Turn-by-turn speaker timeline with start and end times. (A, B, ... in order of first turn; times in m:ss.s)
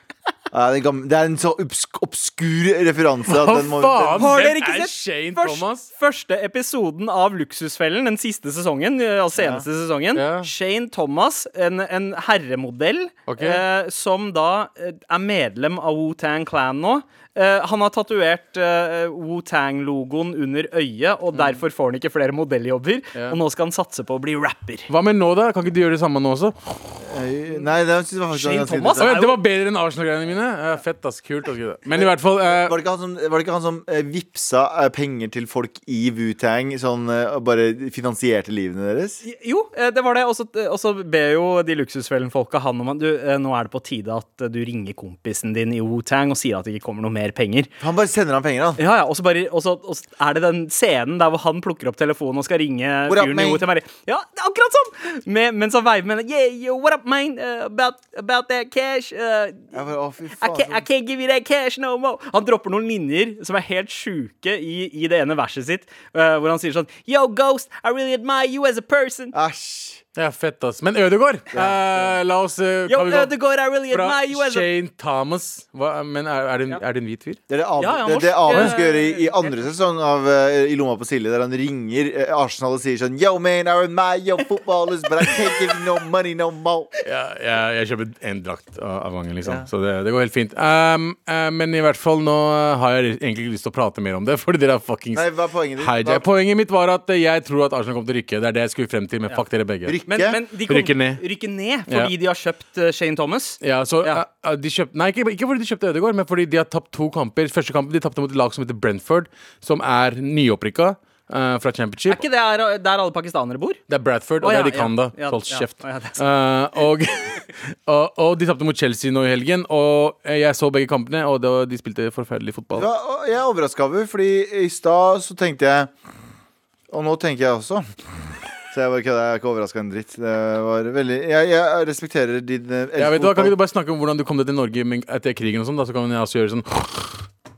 0:00.5-0:04.4 A
0:03.3-0:05.9 B
0:04.2-0:24.9 C
0:09.4-0:09.6 A
0:10.1-0:10.5 B
0:13.3-0:13.6 B
0:21.3-0:21.6 B
0:24.9-0:26.6 B
0:27.0-0:29.2 A
0:28.3-0:29.4 C
0:29.0-0:32.8 B
0:32.0-0:39.2 A
0:39.2-0:47.7 C
0:47.8-0:48.8 A
0:48.8-0:59.7 C
0:53.1-0:53.6 A
0:59.7-1:00.8 A
1:00.4-1:09.3 C
1:09.3-1:10.0 A
1:10.2-1:17.4 B
1:11.5-1:12.1 A
1:12.9-1:14.7 C
1:17.5-1:26.9 A
1:17.8-1:19.6 C
1:27.0-1:40.0 B
1:35.1-1:36.2 A
1:39.8-1:40.4 A
1:40.1-1:44.2 C
1:40.7-1:41.2 B
1:43.6-1:52.2 B
1:52.1-1:53.8 C
1:53.9-2:02.9 B
1:54.4-1:56.2 C
2:02.7-2:05.9 A
2:06.9-2:07.8 A
2:08.7-2:13.5 A
2:13.0-2:17.2 B